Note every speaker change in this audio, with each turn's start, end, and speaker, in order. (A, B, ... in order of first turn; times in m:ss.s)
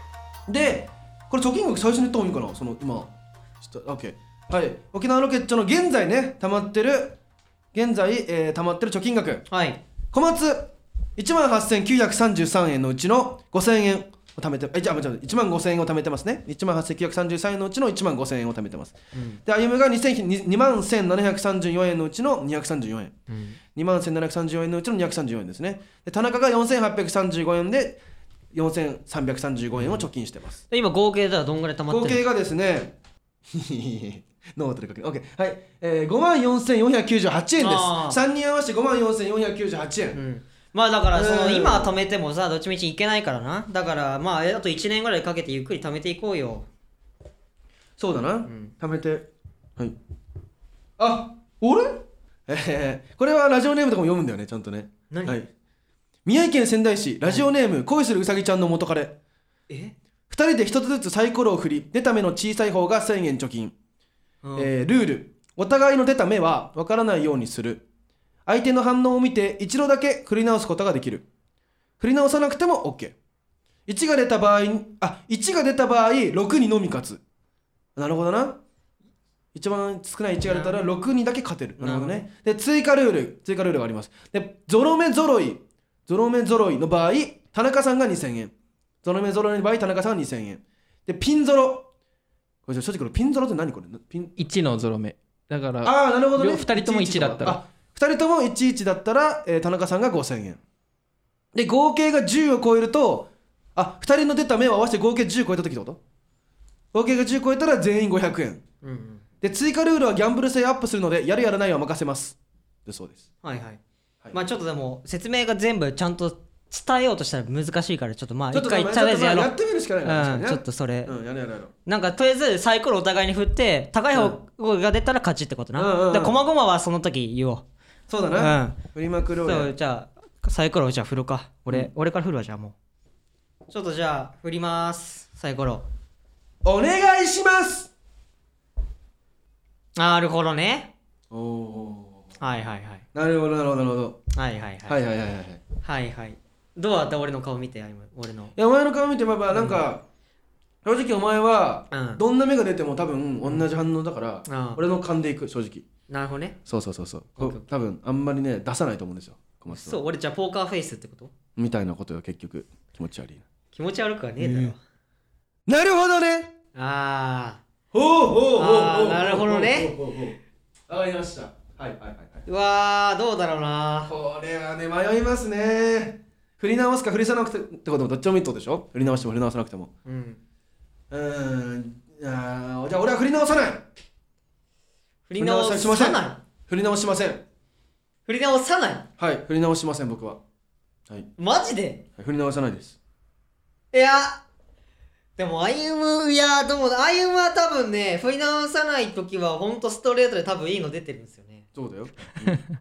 0:00.5-0:07.2 A
0:07.7-0:09.4 A
0:09.5-0:09.8 B
0:10.1-0:23.2 A
0:19.1-0:19.4 B
0:23.3-0:23.6 B
0:23.7-0:28.0 A
0:28.5-0:30.6 A
0:29.7-0:30.0 B
0:30.7-0:32.2 B
0:31.9-0:32.9 A
0:33.5-0:40.2 A
0:37.6-0:38.2 B
0:40.1-0:46.6 B
0:41.1-0:41.9 A
0:48.0-0:50.0 A
0:48.4-0:48.7 B
0:51.0-0:55.5 A
0:55.1-0:55.4 B
0:56.2-0:59.2 A
0:59.7-0:59.9 B
1:00.3-1:03.7 A
1:04.4-1:04.7 B
1:04.6-1:07.8 A
1:08.4-1:11.2 A
1:12.0-1:13.1 A
1:13.9-1:17.2 A
1:18.0-1:18.6 A
1:19.5-1:28.5 A
1:20.4-1:20.9 B
1:21.8-1:22.2 B
1:29.0-1:31.9 A
1:32.6-1:34.3 A
1:34.4-1:37.6 C
1:35.8-1:40.6 A
1:41.5-1:46.0 A
1:46.9-1:48.6 A
1:48.8-1:49.2 B
1:49.4-1:53.3 A
1:53.4-1:53.8 B
1:54.3-1:59.5 B
1:58.5-2:01.7 A
2:00.0-2:01.2 B
2:01.8-2:07.6 B
2:04.1-2:04.4 A
2:05.8-2:06.4 A
2:08.1-2:09.7 A
2:08.4-2:08.8 B
2:09.4-2:12.7 B
2:13.7-2:15.8 B
2:16.6-2:17.9 A
2:20.0-2:20.9 B
2:21.3-2:22.3 A
2:22.4-2:23.0 B
2:23.1-2:24.2 A
2:24.3-2:25.0 B
2:24.8-2:25.6 A
2:25.8-2:28.5 B
2:28.6-2:30.0 A
2:29.5-2:29.8 B
2:30.8-2:35.8 A
2:31.9-2:32.2 B
2:34.4-2:34.8 B
2:36.1-2:36.6 B
2:36.6-2:40.0 A
2:37.4-2:37.6 B
2:39.7-2:41.3 B
2:41.6-2:43.4 A
2:43.7-2:44.8 B
2:44.4-2:44.7 A
2:45.7-2:46.5 A
2:46.7-2:47.6 B
2:47.9-2:52.4 A
2:48.6-2:49.9 B
2:52.4-2:54.1 B
2:54.1-2:59.9 A
3:00.0-3:00.4 B
3:01.1-3:03.8 A
3:05.3-3:06.4 B
3:05.4-3:07.4 A
3:08.2-3:09.1 B
3:09.2-3:10.4 A
3:11.4-3:12.0 B
3:12.2-3:13.0 A
3:13.9-3:14.4 B
3:15.4-3:21.7 B
3:21.7-3:22.6 A